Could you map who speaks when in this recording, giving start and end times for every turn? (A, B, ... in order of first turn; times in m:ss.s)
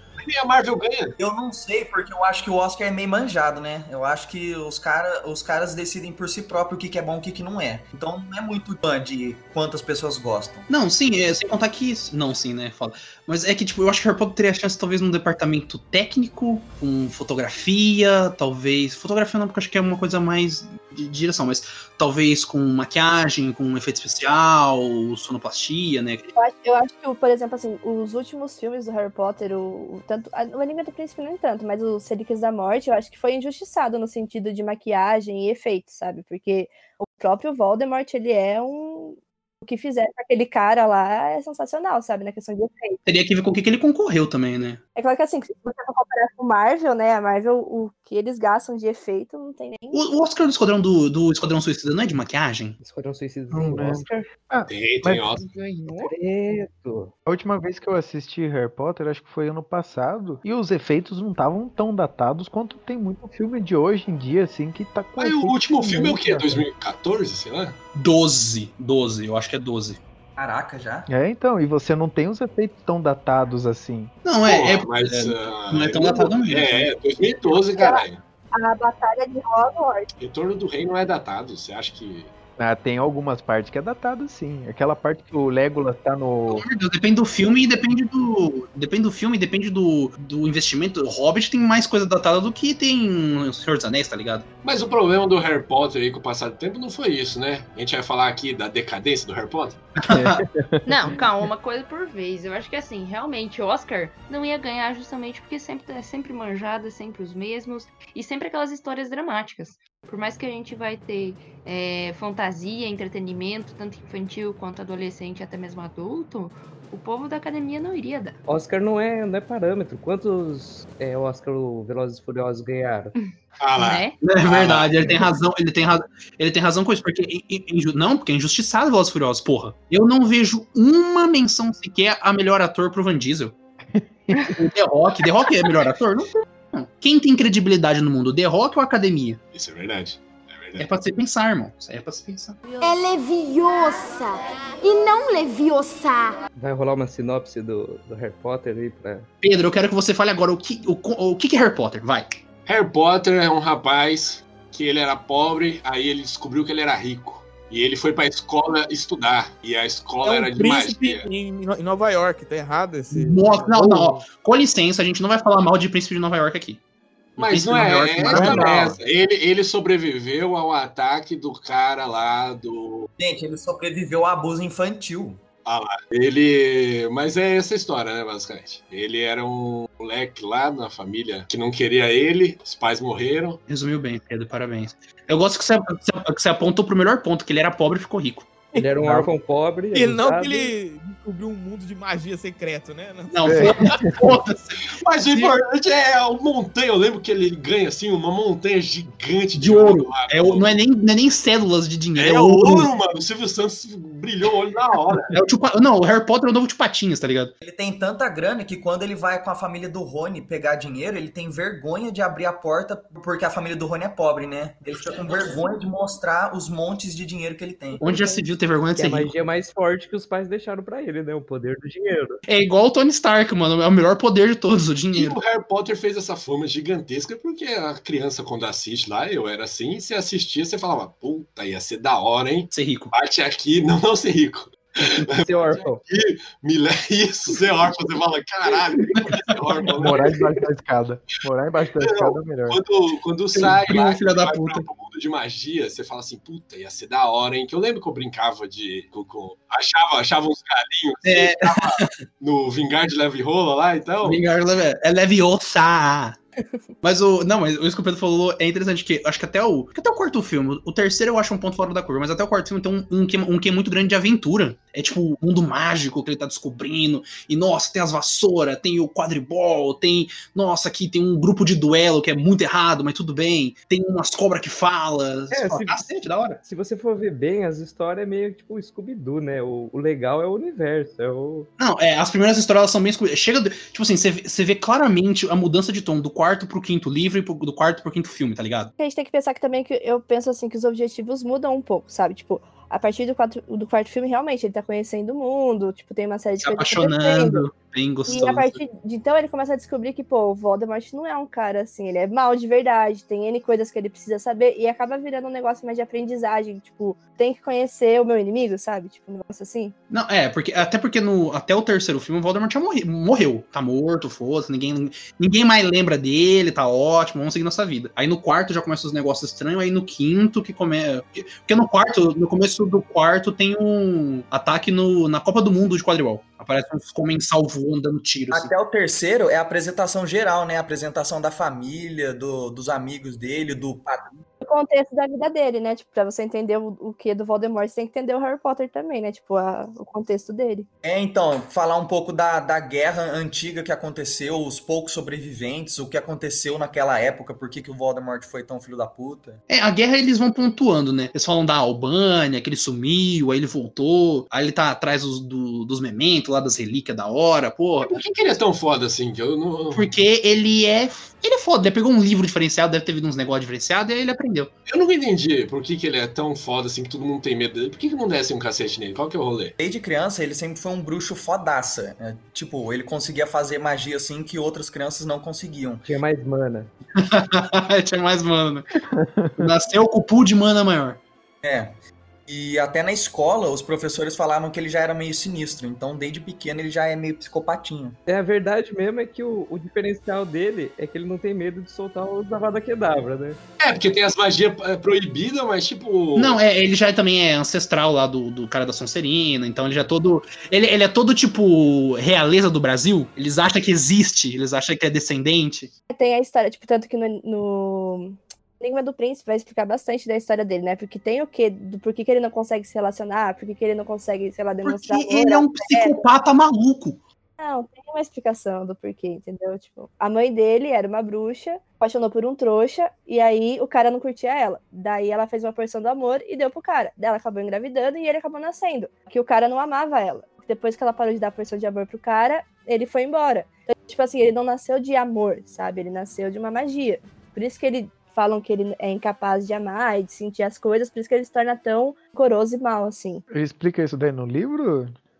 0:00.2-0:01.2 A
0:01.2-0:10.7 B
0:10.7-0:26.3 C
0:26.4-0:43.0 D
0:43.0-0:44.8 C
0:45.0-0:50.0 D
0:49.9-0:52.8 C
0:52.8-0:54.3 E
0:53.5-0:55.2 F
0:54.7-0:55.4 A
0:55.4-0:56.1 G
0:55.8-0:57.1 E
0:57.2-1:06.6 F
1:05.2-1:07.8 A
1:08.0-1:10.0 C
1:10.4-1:11.1 B
1:11.1-1:14.1 F
1:14.2-1:16.9 C
1:14.4-1:18.2 A
1:17.8-1:20.1 D
1:20.2-1:22.3 A
1:22.6-1:26.6 F
1:26.5-1:34.4 C
1:34.6-1:39.8 A
1:40.0-1:40.4 C
1:40.1-1:40.8 F
1:40.8-1:58.4 G
1:58.4-2:03.1 E
2:03.1-2:04.2 G
2:03.6-2:05.2 A
2:04.2-2:13.5 C
2:13.9-2:14.6 F
2:14.5-2:19.4 C
2:19.5-2:20.9 A
2:20.8-2:22.6 C
2:22.8-2:26.4 H
2:26.6-2:29.3 E
2:29.4-2:32.4 C
2:32.6-2:41.2 A
2:40.2-2:44.1 I
2:43.1-2:46.8 C
2:47.4-2:48.9 C
2:47.4-2:53.1 A
2:48.3-2:49.0 I
2:53.2-2:55.4 B
2:55.6-3:03.6 A
3:03.7-3:08.5 C
3:08.7-3:10.7 E
3:09.0-3:09.3 F
3:09.9-3:13.8 I
3:13.3-3:15.5 C
3:13.4-3:14.2 F
3:14.9-3:20.8 A
3:19.5-3:22.9 C
3:22.2-3:25.3 A
3:25.3-3:27.5 C
3:27.6-3:38.0 B
3:38.0-3:39.3 C
3:38.9-3:42.4 E
3:42.5-3:45.4 C
3:45.1-4:00.4 A
3:52.7-3:53.1 C
3:55.3-3:56.0 E
4:00.0-4:02.8 F
4:02.0-4:14.4 A
4:03.5-4:04.8 C
4:11.2-4:12.2 C
4:14.2-4:16.4 C
4:17.0-4:36.6 C
4:35.5-4:41.7 E
4:41.8-4:48.9 C
4:49.0-4:57.6 D
4:56.6-4:58.8 C
4:58.3-5:09.9 D
5:10.1-5:28.7 C
5:28.5-5:34.4 B
5:34.6-5:40.9 D
5:41.0-5:49.6 B
5:49.7-5:58.2 C
5:58.0-6:00.1 A
5:59.9-6:04.7 C
6:04.9-6:09.7 A
6:09.8-6:16.1 B
6:16.0-6:16.9 E
6:17.2-6:19.0 C
6:19.1-6:19.7 F
6:19.6-6:21.2 C
6:21.6-6:22.0 B
6:22.5-6:28.2 B
6:28.3-6:33.6 E
6:33.8-6:36.6 A
6:36.3-6:45.9 C
6:46.1-6:56.2 D
6:54.8-6:57.2 C
6:57.6-7:23.4 D
7:23.5-7:25.1 F